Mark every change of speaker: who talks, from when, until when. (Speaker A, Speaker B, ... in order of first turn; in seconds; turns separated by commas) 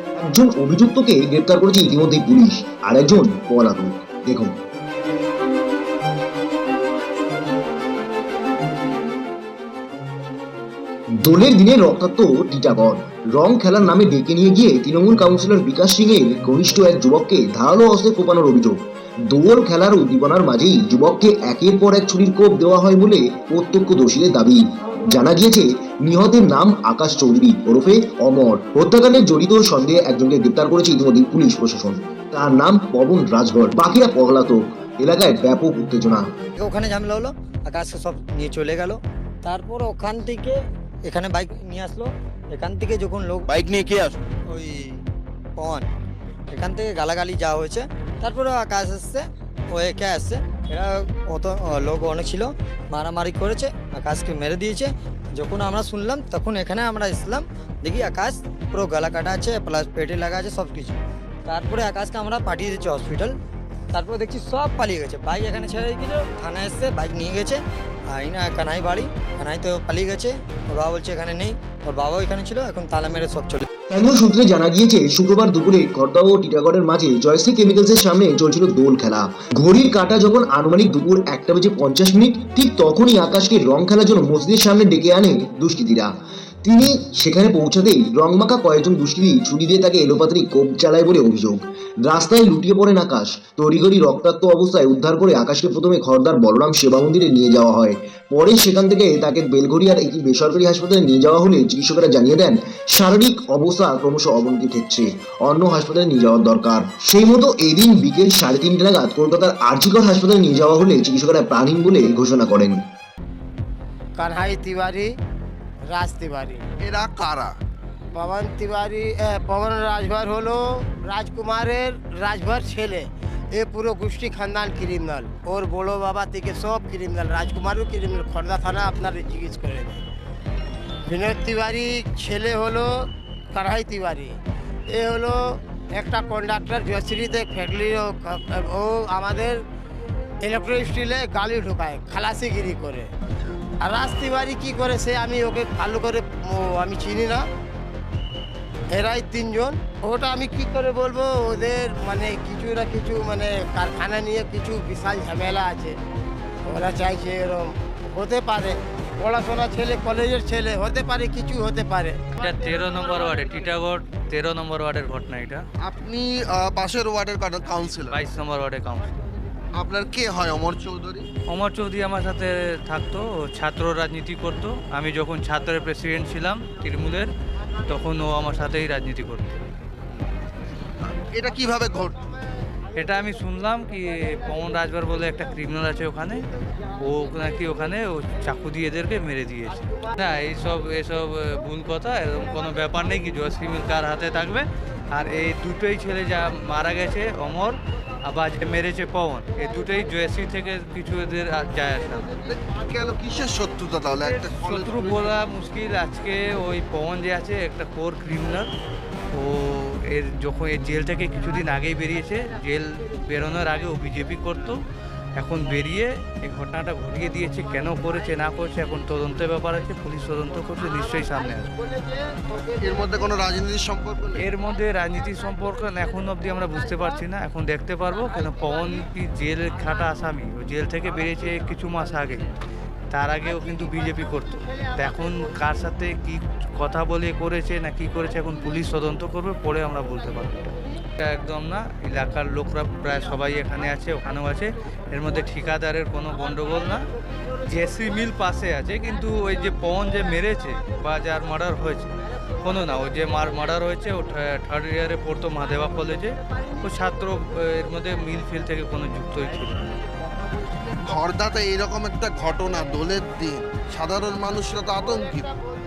Speaker A: 0.3-4.5, Speaker A: 11.2-18.8, Speaker A: 19.3-36.2, Speaker B: 36.6-40.6, Speaker B: 41.1-43.5, Speaker C: 43.5-44.1, Speaker B: 44.5-45.0, Speaker B: 45.6-45.9, Speaker B: 46.5-63.3, Speaker B: 63.9-67.6, Speaker B: 68.1-73.7, Speaker A: 73.9-86.1, Speaker A: 86.6-112.8, Speaker D: 114.2-115.1, Speaker D: 115.9-116.6, Speaker C: 116.8-117.5, Speaker D: 118.2-130.0, Speaker D: 131.1-132.9, Speaker D: 133.5-134.3, Speaker D: 134.9-135.4, Speaker D: 136.0-139.6, Speaker D: 140.4-143.1, Speaker D: 143.8-147.4, Speaker D: 148.9-156.0, Speaker D: 156.7-162.2, Speaker E: 162.4-165.6, Speaker C: 165.8-168.1, Speaker E: 168.1-169.1, Speaker C: 169.8-171.2, Speaker E: 171.5-177.3, Speaker E: 177.8-179.6, Speaker C: 181.0-182.2, Speaker E: 183.0-186.4, Speaker E: 187.0-202.3, Speaker C: 202.5-204.9, Speaker E: 204.1-208.7, Speaker E: 209.3-214.8, Speaker E: 215.4-221.8, Speaker C: 222.8-224.4, Speaker E: 224.4-232.5, Speaker E: 233.1-247.0, Speaker E: 247.7-252.1, Speaker E: 252.6-259.9, Speaker C: 261.1-265.5